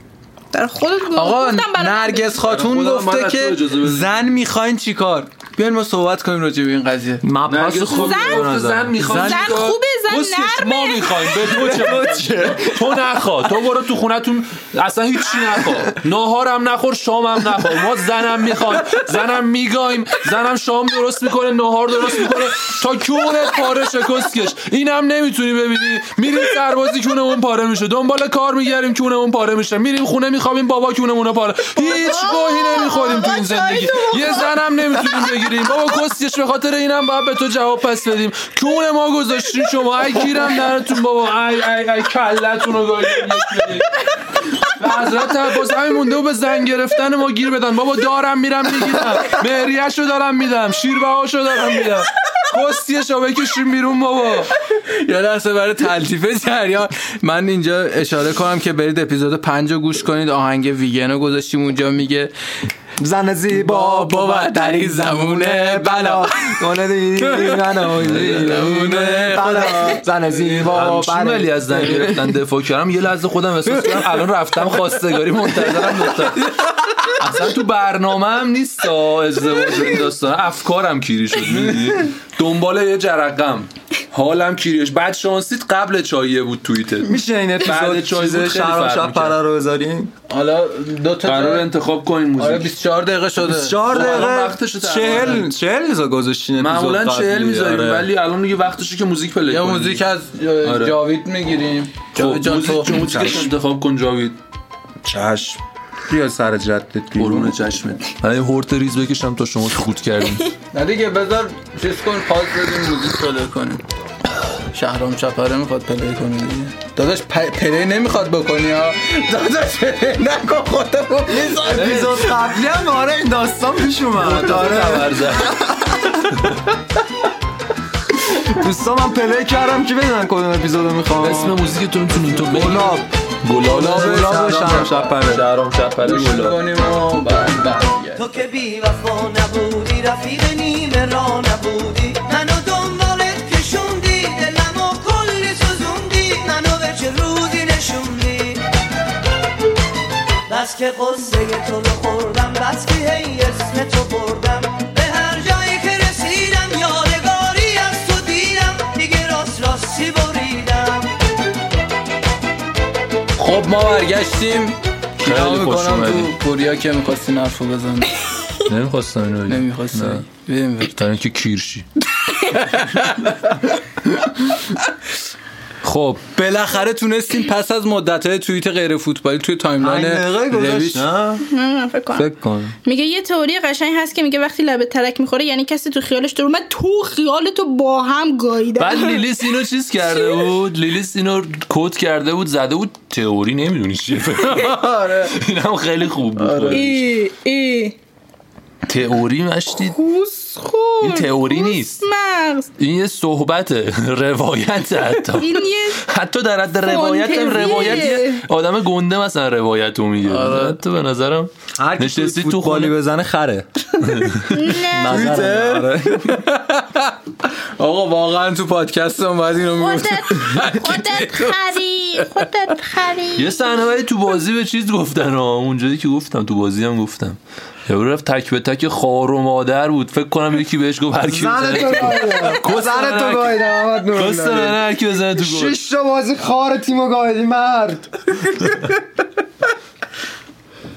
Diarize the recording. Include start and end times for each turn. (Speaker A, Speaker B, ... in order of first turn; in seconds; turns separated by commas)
Speaker A: 0.5-2.4, Speaker B: 1.1-7.2, Speaker C: 2.4-4.2, Speaker D: 7.2-9.0, Speaker C: 7.5-43.9, Speaker A: 7.9-11.6, Speaker B: 9.0-9.7, Speaker D: 11.4-12.9, Speaker A: 31.8-34.5, Speaker C: 44.6-54.5, Speaker B: 54.7-62.3, Speaker D: 63.0-72.1, Speaker B: 63.5-66.5, Speaker B: 67.3-70.7, Speaker C: 68.0-68.6, Speaker C: 70.7-89.4, Speaker D: 87.0-90.1, Speaker B: 90.3-91.7, Speaker C: 91.2-92.7, Speaker B: 92.4-94.3, Speaker D: 93.4-98.1, Speaker C: 93.9-95.5, Speaker B: 95.0-95.4, Speaker C: 96.6-100.0, Speaker B: 99.5-103.3, Speaker C: 100.6-101.0, Speaker C: 102.1-104.4, Speaker D: 102.9-103.5, Speaker D: 105.0-107.5, Speaker C: 107.2-110.5, Speaker B: 110.7-113.8, Speaker B: 114.7-122.3, Speaker D: 121.3-126.5, Speaker C: 121.7-122.1, Speaker C: 124.2-125.6, Speaker C: 126.3-126.7, Speaker D: 128.2-131.6, Speaker C: 131.2-136.6, Speaker D: 132.4-133.1, Speaker B: 133.6-135.2, Speaker D: 133.6-135.4, Speaker B: 136.0-138.3, Speaker E: 138.2-148.6, Speaker E: 150.5-161.1, Speaker B: 163.3-168.1, Speaker C: 165.2-166.3, Speaker C: 168.7-170.2, Speaker B: 169.5-170.9, Speaker C: 170.9-171.9, Speaker B: 172.4-173.6, Speaker C: 175.8-176.2, Speaker B: 176.3-181.1, Speaker D: 179.8-181.4, Speaker A: 181.5-182.3, Speaker D: 182.1-182.7, Speaker A: 182.8-189.3, Speaker C: 188.8-197.0, Speaker A: 190.2-190.4, Speaker B: 194.4-195.3, Speaker B: 196.4-197.0, Speaker A: 196.7-197.9, Speaker C: 198.9-200.0, Speaker A: 199.9-202.7, Speaker C: 201.0-202.0, Speaker C: 202.8-212.9, Speaker A: 205.4-206.0, Speaker A: 206.8-208.4, Speaker B: 210.2-210.8, Speaker D: 211.8-213.7, Speaker C: 214.0-214.6, Speaker A: 214.5-215.4, Speaker D: 214.8-216.4, Speaker B: 215.1-217.2, Speaker B: 217.8-221.5, Speaker A: 219.8-223.9, Speaker C: 223.3-235.8, Speaker D: 231.3-238.1